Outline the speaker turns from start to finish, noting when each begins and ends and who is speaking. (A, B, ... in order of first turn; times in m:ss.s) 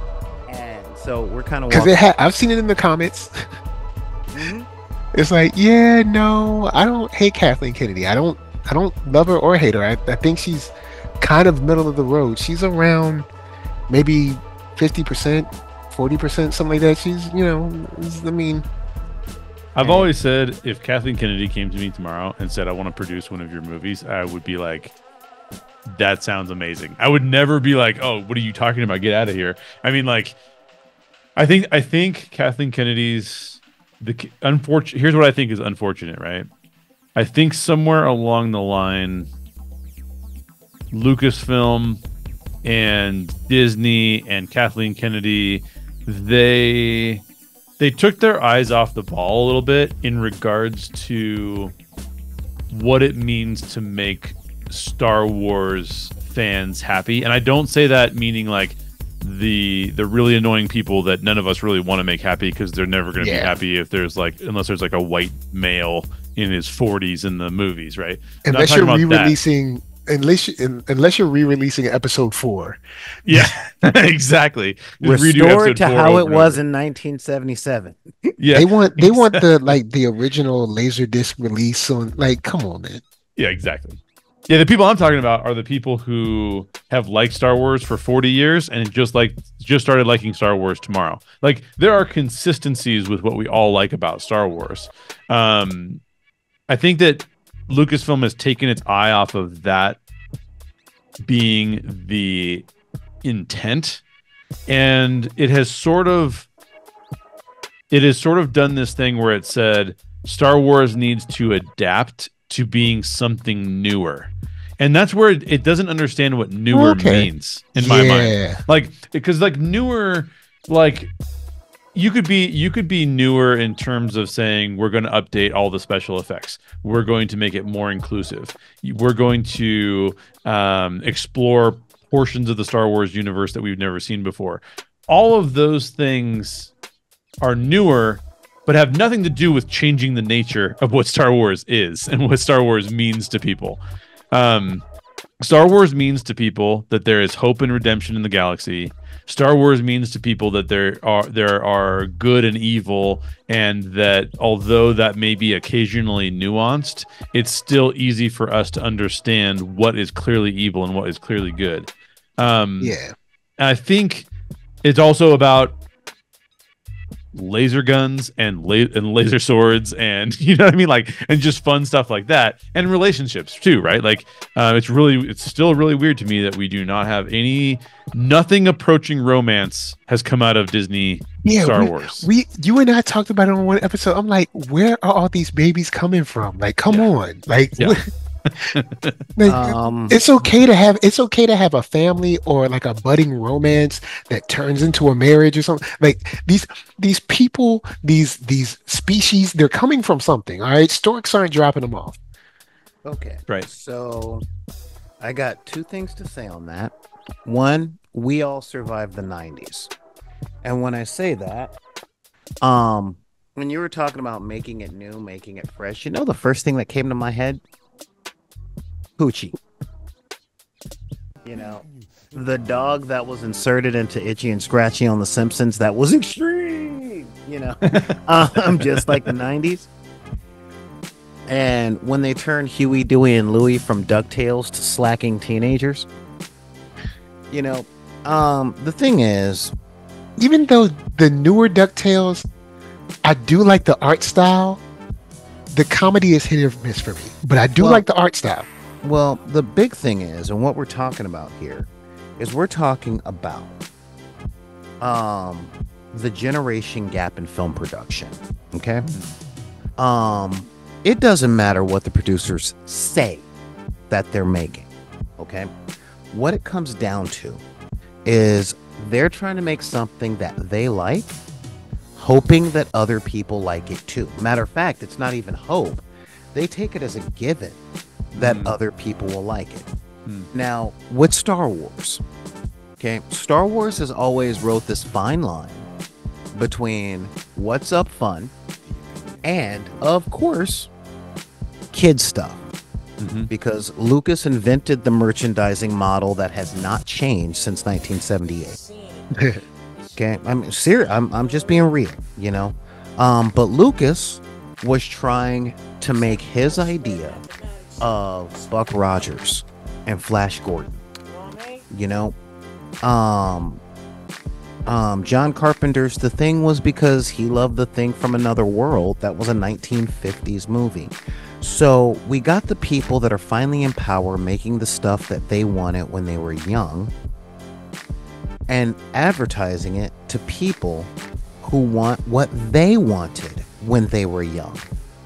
0:00.5-0:02.0 A
0:01.7-0:03.4 B
0:04.3-0:04.7 A
0:05.1-0:13.3 B
0:13.9-0:18.6 B
0:19.7-0:24.9 C
0:19.8-0:20.1 B
0:25.8-0:30.4 C
0:31.4-0:36.5 C
0:37.2-0:39.3 C
0:40.9-0:42.0 C
0:42.6-0:47.2 C
0:47.8-0:51.7 C
0:52.7-1:09.4 C
1:03.2-1:03.5 B
1:08.4-1:13.5 B
1:13.2-1:16.6 C
1:15.0-1:18.3 A
1:18.4-1:19.5 C
1:18.5-1:23.0 B
1:23.4-1:36.0 C
1:36.7-1:40.0 C
1:41.2-1:42.6 C
1:43.2-1:44.0 C
1:44.7-1:46.5 C
1:47.9-2:01.1 C
1:56.7-1:58.6 B
2:01.9-2:16.7 C
2:17.4-2:23.8 C
2:24.3-2:24.8 C
2:25.4-2:43.0 C
2:42.8-2:43.1 B
2:43.6-2:44.3 C
2:44.8-2:45.8 C
2:47.3-3:02.3 C
3:01.4-3:08.0 B
3:08.7-3:09.2 C
3:09.4-3:22.2 B
3:09.4-3:10.2 A
3:23.0-3:24.4 A
3:25.2-3:26.9 A
3:27.4-3:29.9 A
3:30.6-3:31.7 A
3:32.6-3:37.6 A
3:39.2-3:39.6 A
3:41.4-3:49.9 A
3:47.9-3:48.2 C
3:48.8-3:49.3 C
3:51.5-3:56.1 A
3:57.5-3:59.7 A
4:00.4-4:02.5 B
4:03.2-4:04.8 B
4:05.7-4:08.7 B
4:07.8-4:08.0 A
4:09.0-4:13.8 A
4:15.0-4:19.1 A
4:19.1-4:19.3 C
4:20.0-4:23.5 A
4:24.1-4:24.9 A
4:25.4-4:25.7 A
4:26.3-4:27.6 A
4:28.2-4:31.4 A
4:32.1-4:37.8 A
4:38.3-4:38.7 C
4:38.4-4:39.9 A
4:40.5-4:42.2 A
4:43.0-4:45.9 A
4:46.5-4:48.5 A
4:49.4-4:50.9 A
4:51.9-4:52.6 A
4:53.2-4:53.5 C
4:53.5-4:58.8 A
4:59.3-4:59.6 B
5:00.1-5:07.4 A
5:08.0-5:11.0 A
5:11.9-5:12.4 A
5:13.0-5:13.8 A
5:14.8-5:27.1 A
5:28.7-5:31.1 A
5:31.6-5:34.9 A